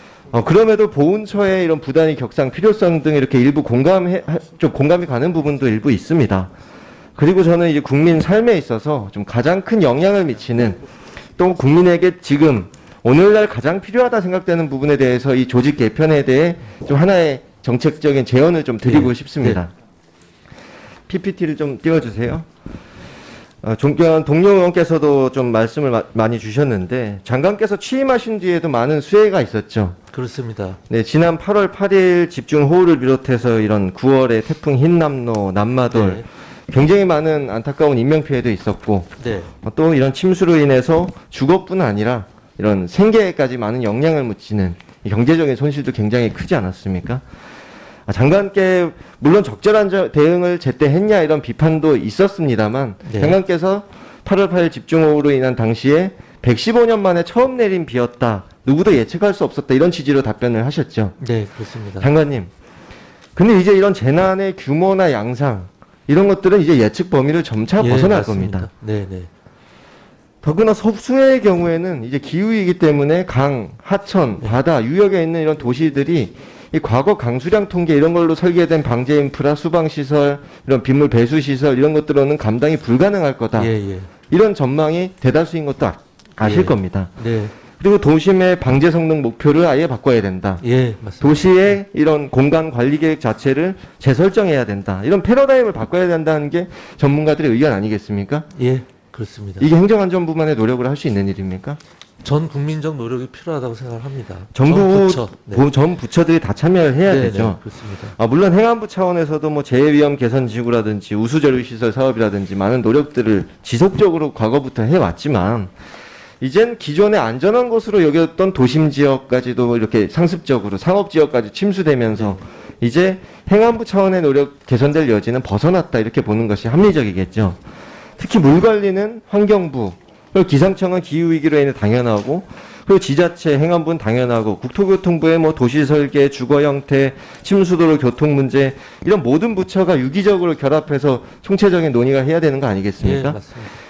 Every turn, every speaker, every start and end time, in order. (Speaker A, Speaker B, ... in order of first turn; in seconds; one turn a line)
Speaker A: 0.3-6.5
Speaker A: 7.2-10.8
Speaker A: 11.4-19.7
Speaker B: 18.8-19.6
Speaker A: 21.1-22.5
Speaker A: 23.6-30.0
Speaker B: 30.1-30.8
Speaker A: 30.9-47.2
Speaker B: 35.9-36.2
Speaker B: 39.2-39.5
Speaker A: 48.1-61.1
Speaker B: 53.0-53.4
Speaker B: 61.2-62.1
Speaker A: 62.0-62.5
Speaker A: 63.4-68.7
Speaker B: 67.8-69.3
Speaker A: 70.4-83.7
Speaker B: 83.6-84.1
Speaker A: 84.3-87.1
Speaker B: 86.4-87.5
Speaker A: 87.7-90.6
Speaker B: 90.6-91.8
Speaker A: 91.2-98.5
Speaker B: 98.5-99.7
Speaker A: 99.6-101.8
Speaker B: 102.2-105.6
Speaker A: 104.5-107.6
Speaker B: 107.1-108.1
Speaker A: 108.2-115.7
Speaker A: 116.4-127.6
Speaker A: 128.2-143.4
Speaker B: 143.0-143.7